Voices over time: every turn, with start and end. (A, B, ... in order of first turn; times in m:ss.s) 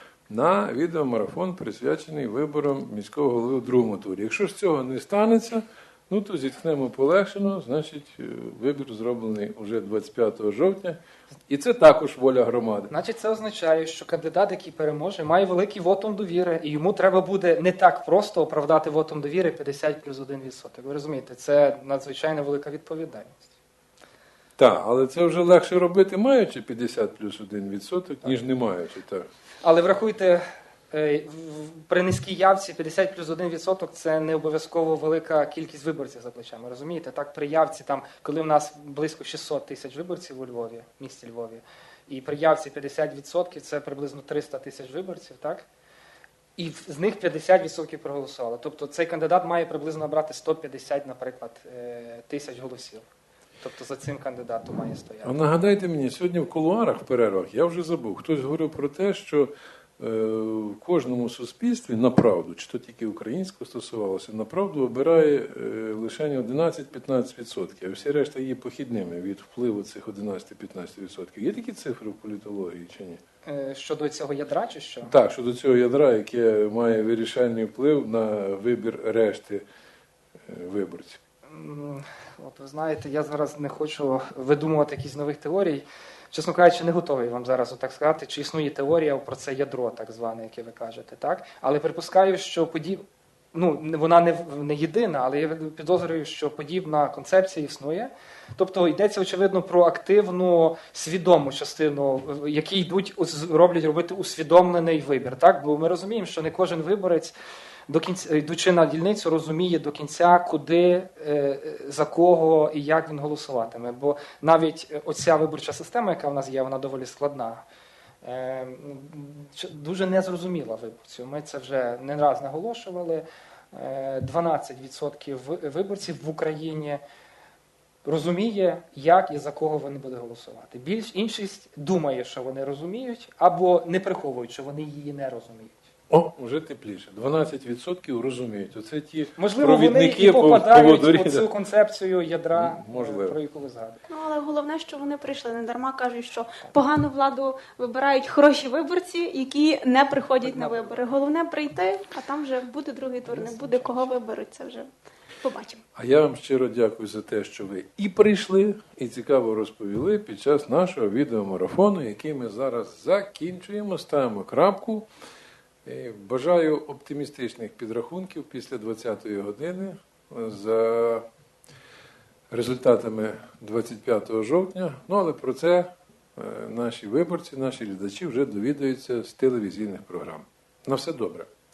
0:00.3-0:12.9 A
0:12.9-0:23.5 B
0:24.6-0:29.3 A
0:29.6-0:45.7 B
0:46.6-0:53.0 B
0:53.6-0:55.4 B
0:55.2-1:13.2 A
1:13.4-1:15.1 B
1:15.0-1:19.6 A
1:20.5-1:21.2 A
1:21.5-1:33.0 B
1:33.5-1:47.3 B
1:47.9-1:57.6 B
1:58.2-2:07.0 B
2:08.0-2:15.9 B
2:16.1-2:21.5 A
2:19.4-2:24.0 B
2:22.5-2:23.4 A
2:24.1-2:34.9 C
2:30.4-2:31.1 B
2:33.3-2:34.1 B
2:35.4-2:35.8 C
2:36.0-2:45.1 A
2:45.9-2:51.2 A
2:52.5-3:01.5 A